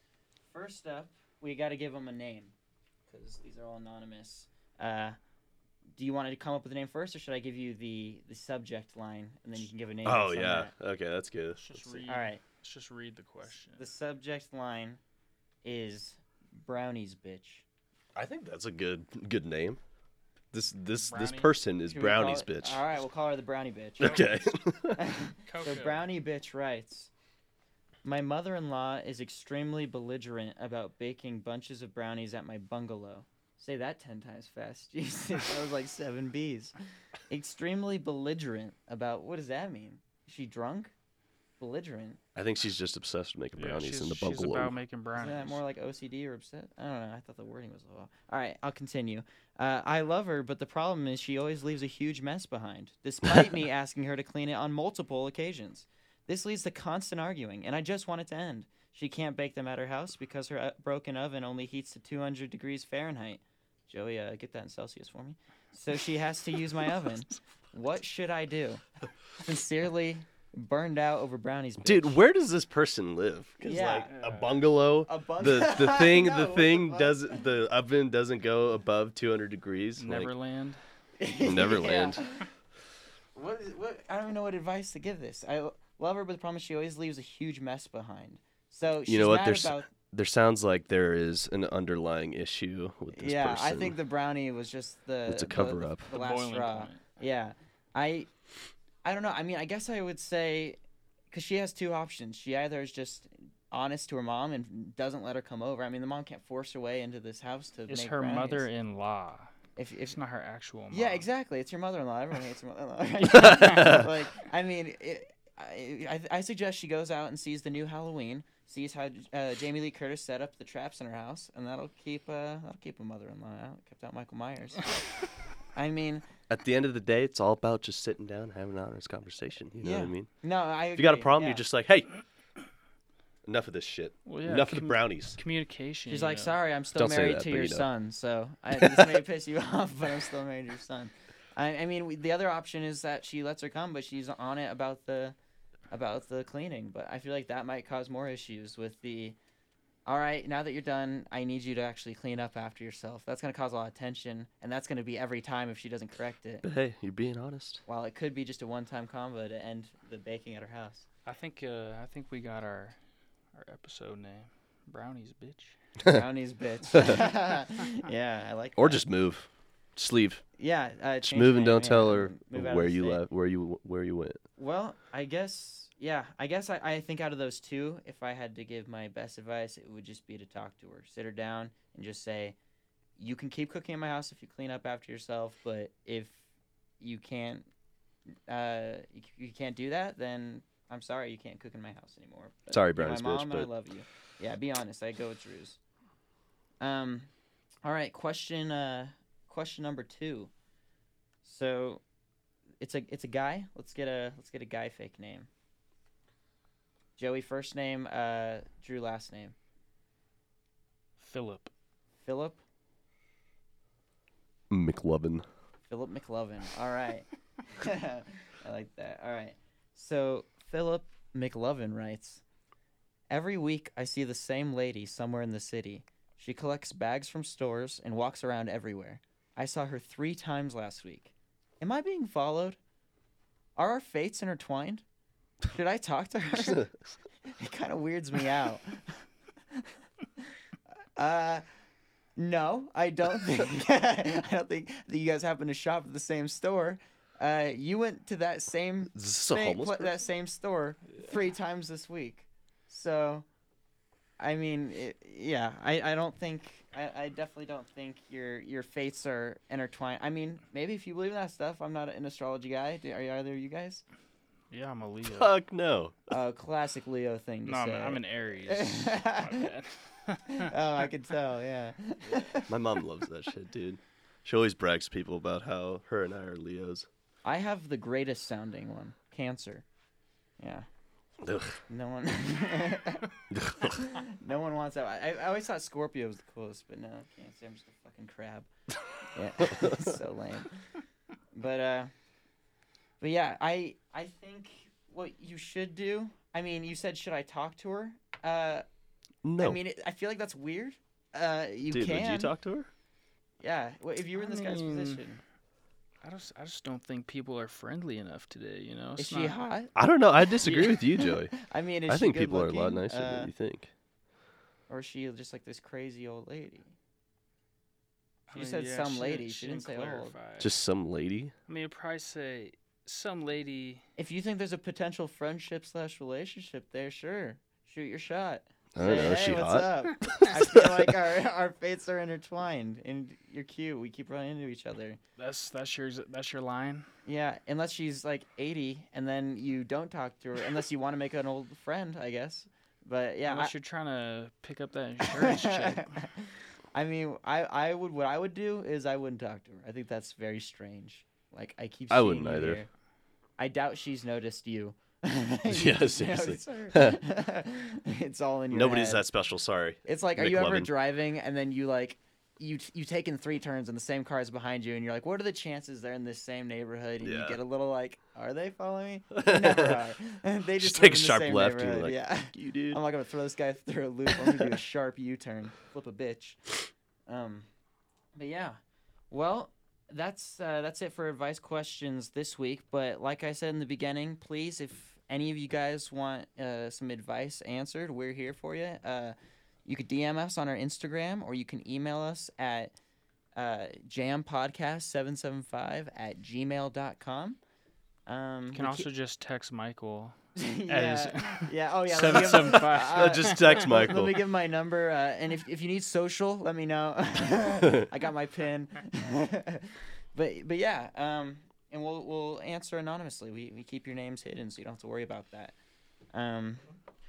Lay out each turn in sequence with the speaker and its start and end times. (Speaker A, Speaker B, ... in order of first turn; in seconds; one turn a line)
Speaker A: 0.5-2.5
Speaker A: 3.1-5.2
Speaker A: 5.9-10.7
Speaker B: 10.0-12.0
Speaker C: 11.6-13.8
Speaker A: 12.1-12.4
Speaker A: 13.8-15.0
Speaker A: 15.6-17.6
Speaker B: 18.1-19.8
Speaker B: 20.5-22.8
Speaker C: 21.1-21.5
Speaker A: 21.9-24.3
Speaker B: 24.0-25.0
Speaker C: 24.0-24.3
Speaker A: 24.9-27.1
Speaker C: 25.4-26.1
Speaker A: 28.0-36.7
Speaker A: 37.3-40.9
Speaker A: 41.6-42.2
Speaker B: 42.3-44.8
Speaker C: 43.6-45.6
Speaker A: 45.1-68.8
Speaker A: 69.3-72.2
Speaker B: 71.8-80.3
Speaker A: 73.6-74.1
Speaker C: 74.1-74.6
Speaker A: 75.0-77.4
Speaker C: 80.0-80.8
Speaker A: 81.2-82.5
Speaker B: 81.4-82.2
Speaker A: 83.3-89.9
Speaker B: 89.1-93.9
Speaker A: 93.1-98.3
Speaker B: 95.2-96.1
Speaker C: 96.1-97.0
Speaker A: 99.0-100.8
Speaker A: 101.3-108.7
Speaker C: 107.9-109.5
Speaker A: 109.8-110.2
Speaker C: 110.1-111.2
Speaker A: 110.9-124.9
Speaker B: 113.3-114.1
Speaker C: 113.6-113.9
Speaker A: 125.7-126.2
Speaker B: 126.5-130.3
Speaker A: 129.8-131.6
Speaker B: 130.9-132.1
Speaker B: 133.4-135.4
Speaker C: 134.2-136.6
Speaker A: 136.1-145.3
Speaker B: 136.9-137.9
Speaker B: 138.7-139.2
Speaker A: 145.9-149.4
Speaker A: 150.1-156.6
Speaker B: 156.6-157.8
Speaker A: 157.9-161.1
Speaker C: 161.2-163.0
Speaker C: 163.5-165.8
Speaker A: 166.0-169.0
Speaker B: 168.8-170.4
Speaker A: 170.6-173.2
Speaker B: 171.2-174.4
Speaker A: 174.6-182.6
Speaker A: 183.2-186.4
Speaker A: 187.0-187.7
Speaker A: 188.5-195.8
Speaker B: 192.7-193.7
Speaker A: 196.8-197.3
Speaker A: 197.8-200.5
Speaker A: 201.4-202.0
Speaker A: 202.8-205.5
Speaker A: 207.2-209.5
Speaker C: 211.2-211.7
Speaker A: 212.2-212.6
Speaker B: 214.7-215.4
Speaker A: 215.9-222.4
Speaker A: 223.3-232.8
Speaker A: 233.8-235.0
Speaker A: 235.7-236.9
Speaker B: 236.6-237.1
Speaker A: 237.5-239.2
Speaker A: 241.2-241.6
Speaker A: 242.3-253.4
Speaker B: 249.1-250.2
Speaker A: 254.4-264.0
Speaker C: 264.7-265.5
Speaker B: 265.2-266.2
Speaker A: 266.3-269.7
Speaker C: 267.6-270.7
Speaker A: 270.5-272.7
Speaker B: 272.7-277.1
Speaker A: 277.4-279.8
Speaker A: 280.6-280.9
Speaker B: 281.4-281.8
Speaker A: 281.9-288.7
Speaker B: 283.5-284.0
Speaker A: 289.3-290.9
Speaker B: 289.7-290.1
Speaker A: 291.5-292.1
Speaker A: 293.2-298.8
Speaker B: 299.4-299.8
Speaker A: 299.6-302.5
Speaker B: 301.9-302.9
Speaker A: 303.6-305.4
Speaker C: 304.4-305.2
Speaker C: 306.2-309.6
Speaker A: 309.2-309.9
Speaker B: 309.9-311.6
Speaker A: 310.5-313.5
Speaker B: 312.1-313.9
Speaker A: 314.9-316.9
Speaker C: 318.5-320.8
Speaker A: 318.5-320.3
Speaker B: 320.6-321.5
Speaker C: 321.7-324.0
Speaker A: 324.2-335.2
Speaker B: 328.9-331.1
Speaker C: 335.4-337.1
Speaker A: 337.2-343.7
Speaker C: 343.4-346.1
Speaker A: 345.2-352.9
Speaker B: 352.1-352.8
Speaker A: 353.6-359.2
Speaker B: 355.7-357.2
Speaker B: 358.7-360.9
Speaker A: 360.0-376.6
Speaker B: 367.2-367.6
Speaker B: 369.3-370.0
Speaker B: 370.8-373.0
Speaker A: 377.3-377.7
Speaker A: 378.3-378.8
Speaker A: 379.3-392.9
Speaker A: 393.6-397.6
Speaker A: 398.3-399.1
Speaker C: 398.7-400.4
Speaker A: 400.5-415.8
Speaker C: 400.9-403.9
Speaker B: 402.3-404.4
Speaker A: 416.3-416.8